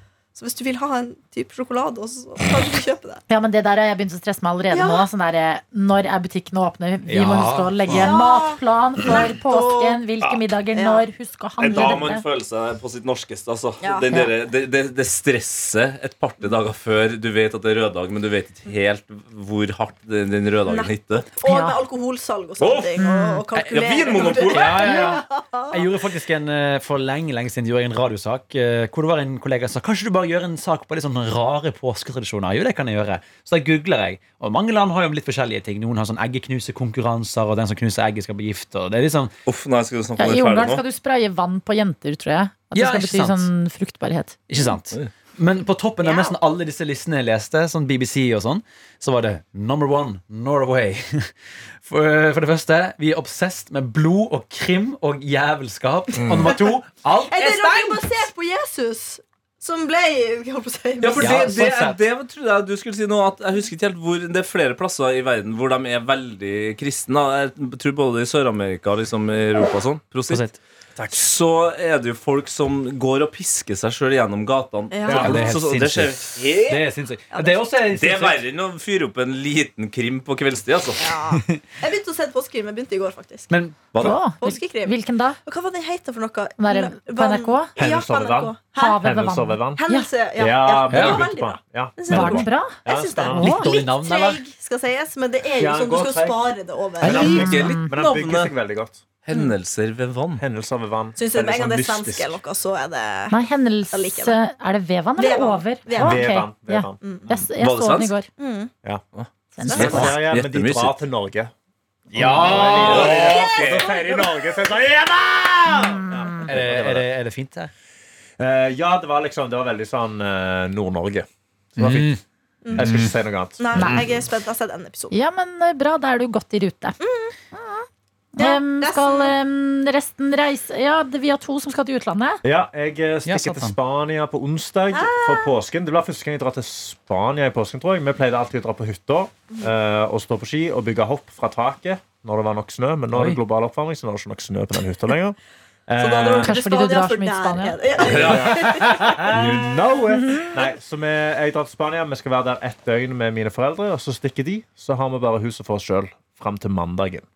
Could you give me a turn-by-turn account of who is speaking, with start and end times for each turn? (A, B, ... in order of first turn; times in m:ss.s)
0:00.3-0:03.2 A
0:03.3-0:12.2 B
0:04.7-0:05.0 A
0:07.1-0:08.1 C
0:07.9-0:10.0 A
0:10.7-0:11.0 A
0:11.6-0:21.3 D
0:11.7-0:12.0 A
0:13.8-0:14.1 A
0:20.6-0:26.0 A
0:21.4-0:21.8 B
0:22.6-0:23.0 D
0:23.0-0:23.5 B
0:23.5-0:39.3 C
0:23.6-0:24.9 D
0:24.8-0:25.2 B
0:39.4-0:40.8 D
0:40.2-0:44.4 B
0:42.7-0:43.5 C
0:44.5-0:58.1 C
0:46.0-0:46.4 A
0:56.2-0:56.6 E
0:57.3-1:01.5 A
1:01.0-1:10.5 D
1:01.1-1:02.0 C
1:10.3-1:10.6 C
1:11.0-1:11.2 E
1:11.1-1:16.8 D
1:14.9-1:15.5 A
1:15.1-1:18.4 C
1:15.1-1:15.5 E
1:17.3-1:17.6 A
1:18.0-1:21.1 D
1:21.0-1:23.5 A
1:21.3-1:21.6 C
1:23.5-1:23.8 C
1:23.9-1:24.2 D
1:24.0-1:25.4 B
1:24.4-1:29.0 A
1:26.6-1:27.7 B
1:27.8-1:29.8 E
1:28.7-1:30.1 B
1:29.7-1:37.5 A
1:30.4-1:33.6 E
1:30.9-1:31.2 C
1:32.1-1:33.8 B
1:33.4-1:34.4 C
1:35.6-1:36.5 E
1:37.0-1:39.0 E
1:37.0-1:38.5 D
1:37.0-1:37.9 B
1:39.2-1:40.4 D
1:40.4-1:42.4 E
1:41.2-1:44.4 A
1:43.3-1:48.3 B
1:45.2-1:46.2 A
1:46.0-1:47.4 E
1:47.0-1:47.3 A
1:47.6-1:48.2 D
1:48.4-1:48.7 A
1:49.1-1:51.0 D
1:49.6-1:50.1 B
1:49.6-1:50.1 A
1:49.7-1:51.5 E
1:52.1-1:57.1 E
1:52.1-1:53.3 C
1:52.5-1:54.0 D
1:52.9-1:54.3 A
1:55.7-1:56.5 B
1:56.4-1:57.7 C
1:58.4-2:02.2 E
2:01.8-2:02.2 C
2:02.6-2:03.0 A
2:02.7-2:03.9 E
2:02.8-2:03.1 C
2:03.6-2:05.1 A
2:03.8-2:04.0 C
2:05.1-2:07.0 B
2:07.0-2:07.3 A
2:07.5-2:12.4 B
2:08.4-2:09.3 A
2:12.4-2:26.5 E
2:13.2-2:13.7 C
2:14.9-2:15.5 A
2:23.1-2:23.4 C
2:26.0-2:29.5 A
2:26.4-2:27.9 B
2:28.0-2:28.8 D
2:28.0-2:37.2 E
2:29.3-2:29.6 D
2:30.1-2:30.6 B